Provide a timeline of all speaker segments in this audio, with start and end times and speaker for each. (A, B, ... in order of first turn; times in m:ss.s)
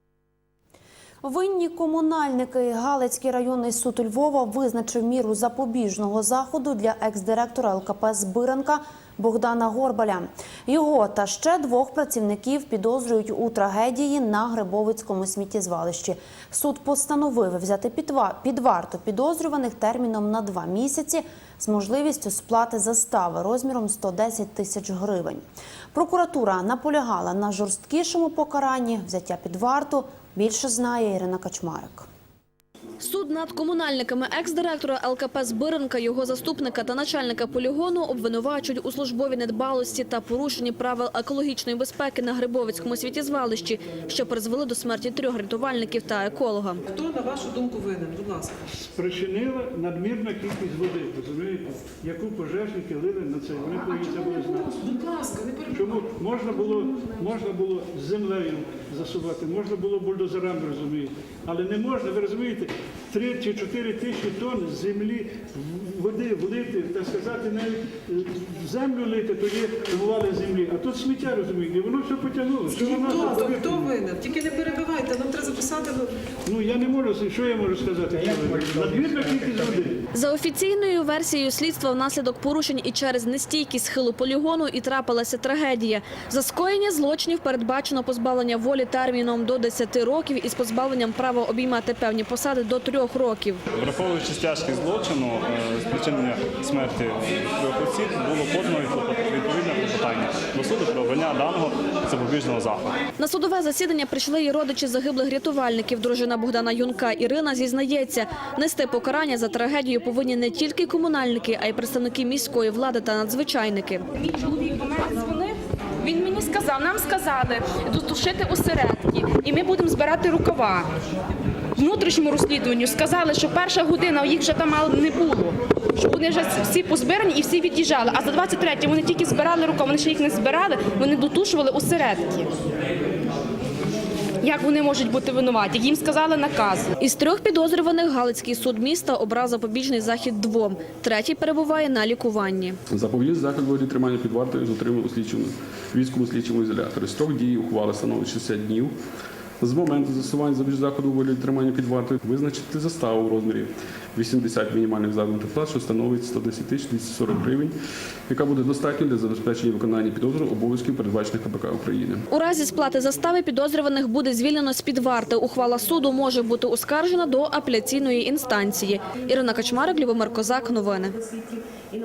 0:01.2-0:25.4 A
0:25.9-0:32.1 A
0:33.0-0:46.8 B
0:46.9-0:48.5 C
0:48.8-0:55.1 D
0:54.0-0:56.0 C
0:55.6-1:14.1 D
1:12.8-1:16.0 C
1:16.4-1:20.0 D
1:20.1-1:33.6 B
1:33.8-1:35.3 E
1:35.8-1:36.7 E
1:37.6-1:38.0 E
1:38.5-1:41.6 E
1:42.2-1:42.8 E
1:43.2-1:54.1 B
1:54.2-2:00.9 F
2:01.8-2:12.5 F
2:14.4-2:16.9 F
2:17.0-2:22.8 B
2:22.9-2:28.9 G
2:29.6-2:37.7 G
2:38.3-2:42.2 G
2:42.3-2:51.2 B